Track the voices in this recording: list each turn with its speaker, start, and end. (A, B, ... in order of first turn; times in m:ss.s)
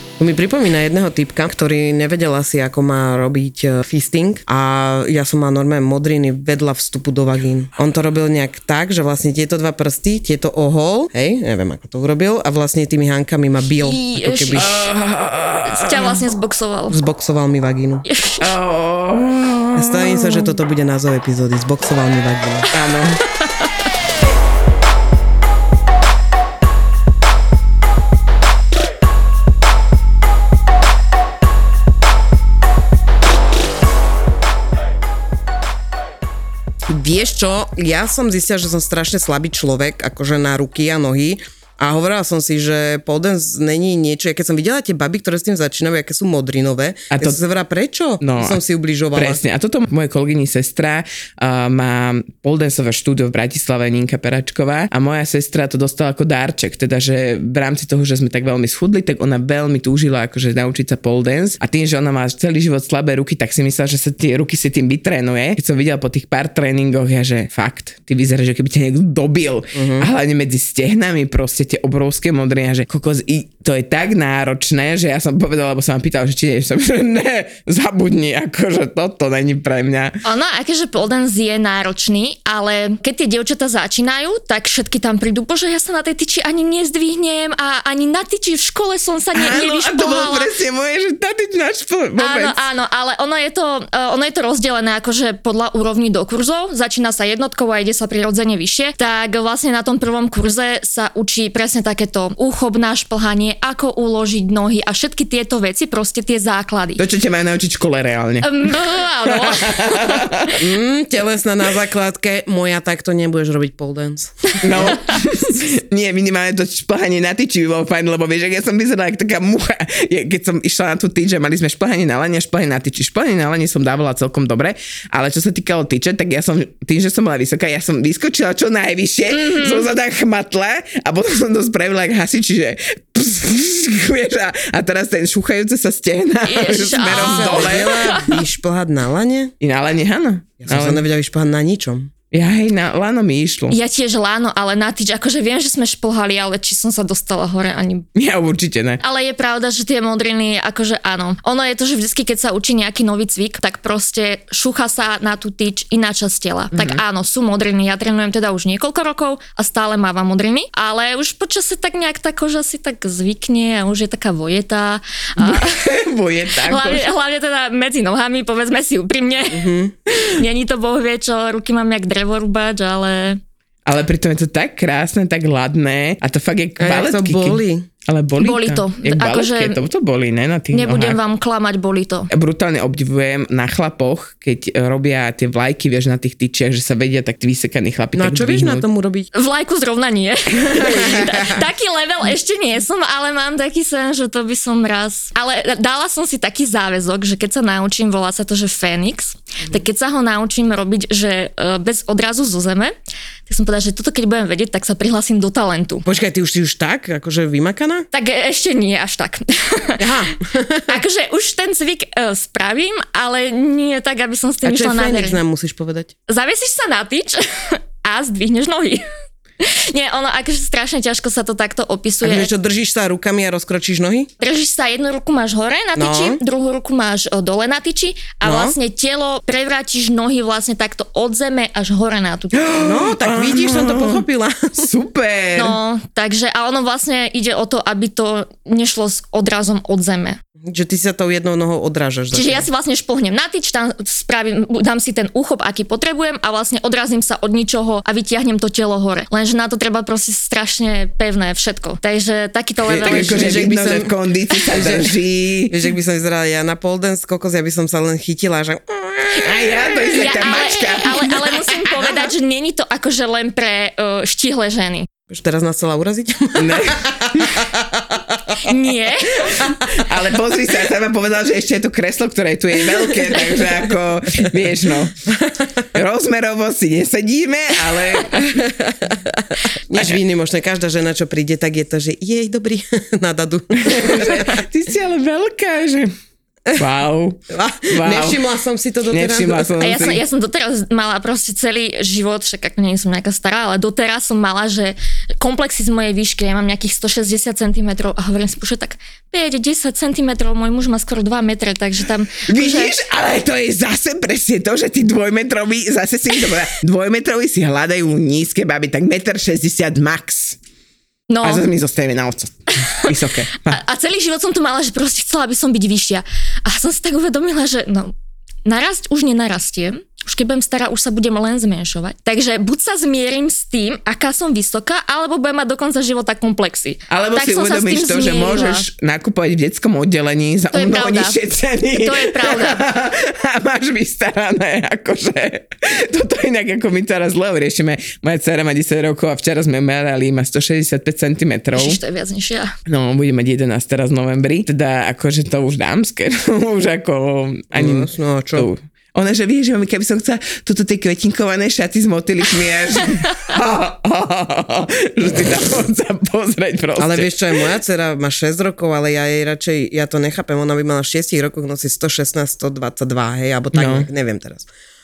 0:00.2-0:14.8 A
0:13.8-0:14.8 B
0:14.6-0:16.2 C
0:15.6-0:17.0 B
0:16.9-0:18.0 A
0:18.0-0:18.5 B
0:18.4-0:20.5 C
0:19.8-0:22.7 A
0:22.7-0:23.2 C
0:36.9-0:49.4 A
0:47.1-0:47.4 C
0:48.2-0:48.6 C
0:49.1-1:20.2 C
1:09.7-1:10.1 A
1:20.2-1:30.5 B
1:29.3-1:32.6 C
1:32.2-1:47.0 B
1:47.0-1:50.6 C
1:48.4-1:50.6 B
1:50.6-1:55.0 A
1:54.6-2:18.2 C
2:09.3-2:09.9 B
2:16.4-2:18.3 B
2:17.1-2:19.5 A
2:19.6-2:21.0 C
2:20.6-2:22.1 A
2:22.3-2:23.8 C
2:23.7-2:28.0 B
2:28.2-2:29.0 C
2:29.0-2:46.0 B
2:36.7-2:37.0 C
2:45.4-2:47.1 C
2:46.6-2:53.4 B
2:49.5-2:49.9 A
2:53.8-3:01.2 C
2:56.8-2:57.9 A
2:58.4-2:59.8 B
3:00.7-3:02.3 B
3:02.3-3:08.8 C
3:08.2-3:09.3 A
3:09.3-3:22.9 B
3:10.6-3:11.5 C
3:23.5-3:26.1 B
3:26.1-3:28.1 A
3:28.1-3:30.2 B
3:30.0-3:31.0 A
3:30.9-3:35.4 B
3:34.6-3:36.1 A
3:36.3-3:39.0 B
3:39.6-3:42.5 B
3:42.2-3:44.3 A
3:44.4-3:52.6 B
3:46.0-3:46.4 A
3:48.4-3:48.7 A
3:52.5-3:54.2 C
3:52.8-3:54.9 A
3:54.8-3:55.8 C
3:55.5-4:00.4 B
4:00.6-4:02.7 A
4:02.3-4:13.7 B
4:12.9-4:15.8 C
4:12.9-4:20.1 A
4:19.3-4:22.1 C
4:20.1-4:25.1 B
4:25.3-4:28.3 A
4:26.6-4:27.6 C
4:28.6-4:29.6 B
4:29.4-4:35.2 C
4:35.3-4:35.9 A
4:35.9-4:38.7 C
4:38.4-4:44.6 A
4:43.8-4:46.1 C
4:46.8-4:48.4 C
4:47.5-4:49.8 A
4:49.1-4:50.2 C
4:49.8-5:02.9 B
5:02.5-5:10.6 C
5:11.3-5:11.7 B
5:11.4-5:13.8 C
5:12.8-5:13.1 B
5:13.7-5:18.1 B
5:18.6-5:28.9 B
5:27.1-5:42.0 C
5:30.7-5:31.4 B
5:31.9-5:32.8 B
5:41.8-5:42.7 B
5:42.9-5:57.7 C
5:47.7-5:48.7 A
5:57.0-6:04.7 A
6:03.7-6:04.1 C